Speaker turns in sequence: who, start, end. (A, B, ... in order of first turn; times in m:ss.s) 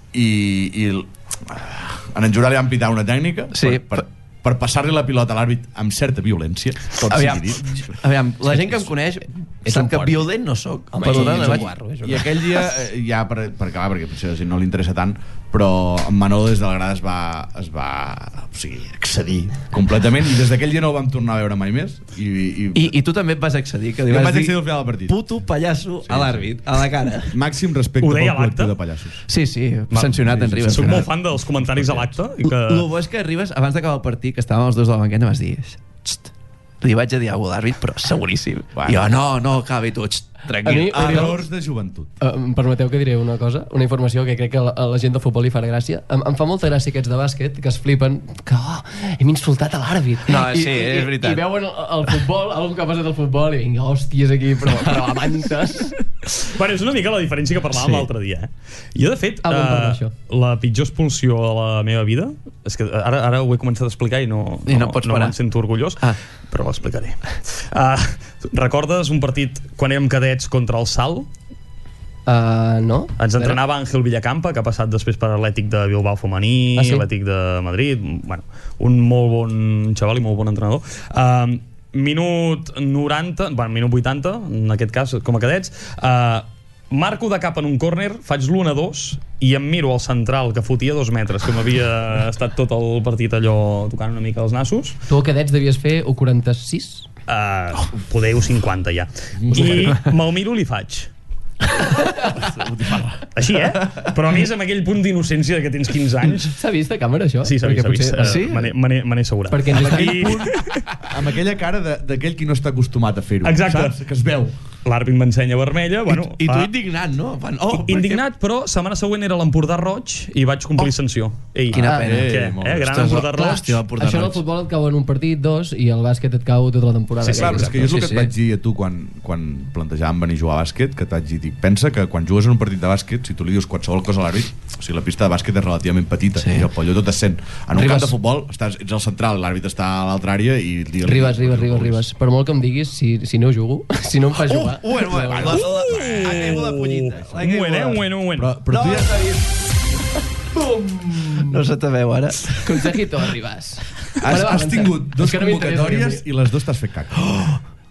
0:00.1-0:08.9 A
0:03.5-0:04.0 B
0:07.0-0:11.7 B
0:09.6-0:10.3 C
0:10.9-0:12.2 C
0:11.0-0:23.0 A
0:22.7-0:27.4 B
0:24.1-0:25.2 A
0:26.0-0:26.6 A
0:27.3-0:29.2 A
0:28.0-0:28.7 D
0:29.3-0:31.1 B
0:29.9-0:32.1 A
0:30.6-0:32.8 D
0:32.4-0:41.4 B
0:38.8-0:39.1 A
0:40.6-0:41.4 C
0:40.9-0:42.1 A
0:42.2-0:55.9 C
0:50.2-0:51.4 B
0:56.4-1:11.3 D
0:57.7-0:58.1 B
0:59.4-1:00.1 C
1:04.7-1:05.3 B
1:12.2-1:13.6 C
1:13.2-1:35.0 D
1:16.8-1:17.0 C
1:35.1-1:37.0 C
1:37.3-1:41.1 D
1:39.4-1:39.9 A
1:39.5-1:39.9 C
1:42.4-1:43.2 A
1:43.3-1:46.5 D
1:46.5-1:48.4 C
1:47.4-1:50.9 D
1:48.2-1:48.7 B
1:49.5-1:50.3 C
1:49.7-1:54.5 A
1:53.4-1:53.9 D
1:54.8-1:56.7 D
1:56.1-1:58.2 B
1:57.7-2:03.8 D
2:01.7-2:04.4 B
2:01.8-2:02.2 C
2:02.0-2:03.2 A
2:03.4-2:08.3 C
2:07.2-2:22.0 A
2:07.8-2:08.1 B
2:17.8-2:18.1 C
2:21.0-2:25.6 C
2:24.3-2:28.0 B
2:25.3-2:26.0 A
2:25.5-2:28.6 D
2:28.4-2:29.2 A
2:28.8-2:29.4 B
2:30.6-2:31.6 C
2:31.4-2:32.6 B
2:32.6-2:36.2 C
2:34.2-2:37.2 A